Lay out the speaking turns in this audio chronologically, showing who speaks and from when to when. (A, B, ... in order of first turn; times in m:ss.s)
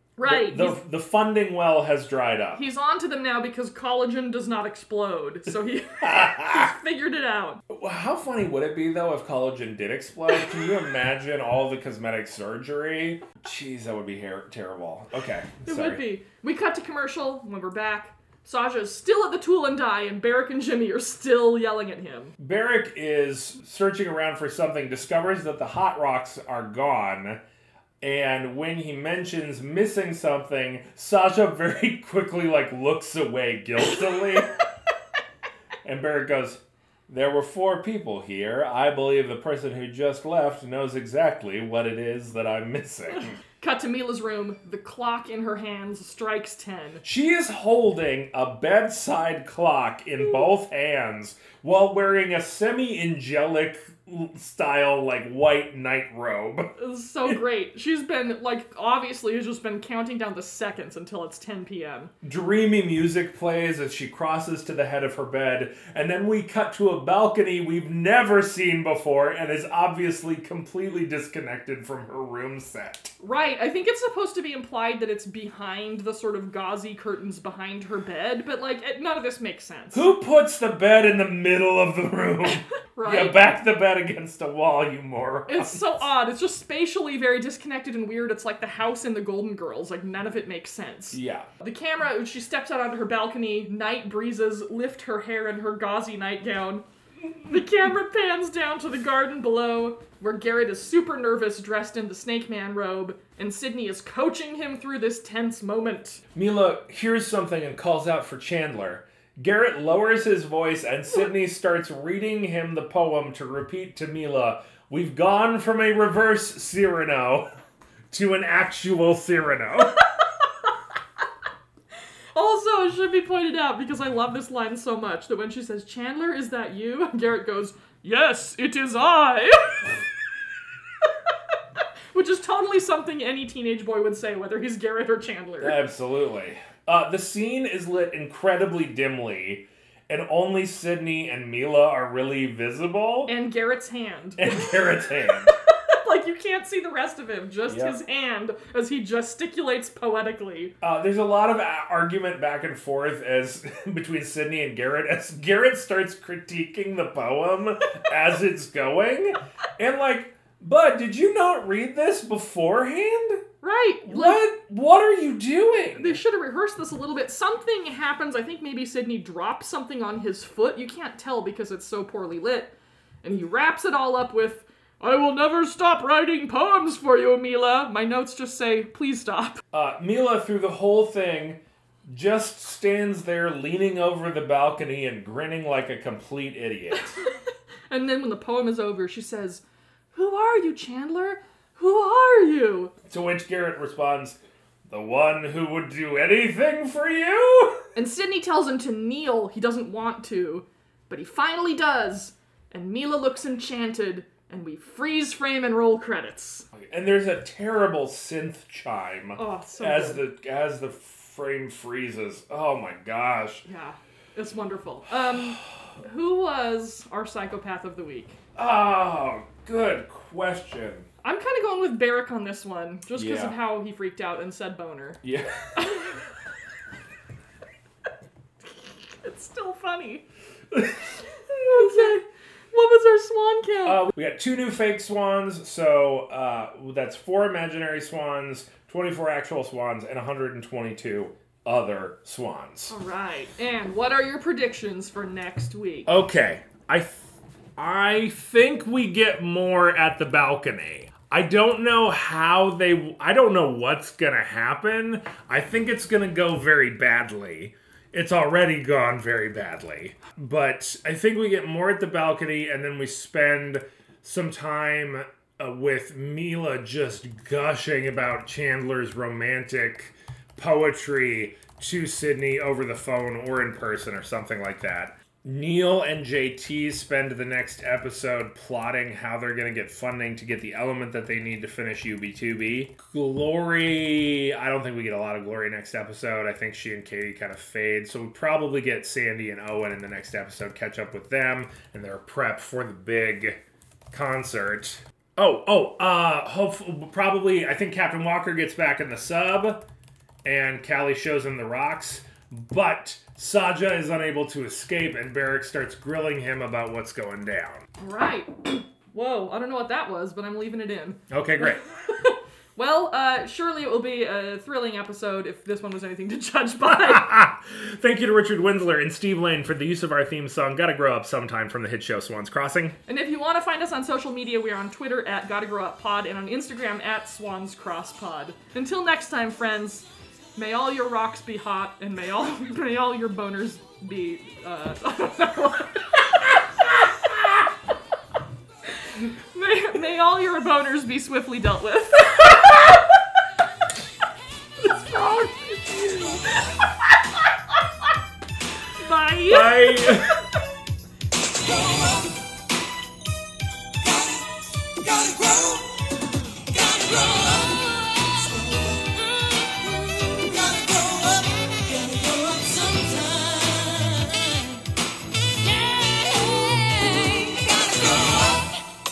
0:00.2-0:00.8 A
0:00.2-0:02.6 B
0:02.5-0:07.6 A
0:06.0-0:06.7 B
0:07.7-0:16.0 B
0:15.7-0:22.3 A
0:22.4-0:27.4 B
0:28.0-0:34.6 B
0:35.8-0:43.4 B
0:43.6-0:47.0 A
0:47.0-0:57.4 B
0:56.8-1:02.1 A
1:02.2-1:13.1 B
1:13.2-1:20.0 A
1:19.9-1:25.9 B
1:22.5-1:23.4 A
1:25.5-1:36.8 A
1:31.1-1:31.5 B
1:37.4-1:46.2 A
1:46.3-1:57.5 B
1:58.1-2:00.0 B
2:02.3-2:10.0 A
2:11.0-2:15.8 A
2:15.6-2:23.3 B
2:23.3-2:30.7 A
2:24.4-2:25.5 B
2:27.7-2:28.0 B
2:30.8-2:43.4 B
2:43.6-2:44.4 A
2:44.0-2:46.2 B
2:46.0-2:59.6 A
2:59.7-3:07.2 B
3:07.9-3:09.6 A
3:10.1-3:12.9 A
3:13.0-3:17.9 B
3:18.0-3:26.7 A
3:26.8-3:33.7 B
3:29.4-3:30.2 A
3:33.7-3:38.4 A
3:38.6-3:41.1 B
3:41.2-3:45.2 A
3:43.1-3:43.6 B
3:45.2-3:45.9 B
3:45.8-3:46.3 A
3:48.7-3:50.3 A
3:50.7-3:51.0 B
3:51.4-3:54.0 A
3:53.8-4:03.0 B
4:02.9-4:06.1 A
4:06.1-4:53.6 B
4:54.1-4:59.8 B
5:00.4-5:07.9 B
5:08.0-5:17.3 A
5:11.3-5:11.8 B
5:16.9-5:23.0 B
5:23.1-5:37.0 A
5:39.0-5:43.0 A
5:44.9-5:46.4 A
5:49.0-5:50.4 A
5:49.5-5:50.4 B
5:55.0-5:55.8 C
5:56.7-6:04.8 C
6:05.6-6:08.7 C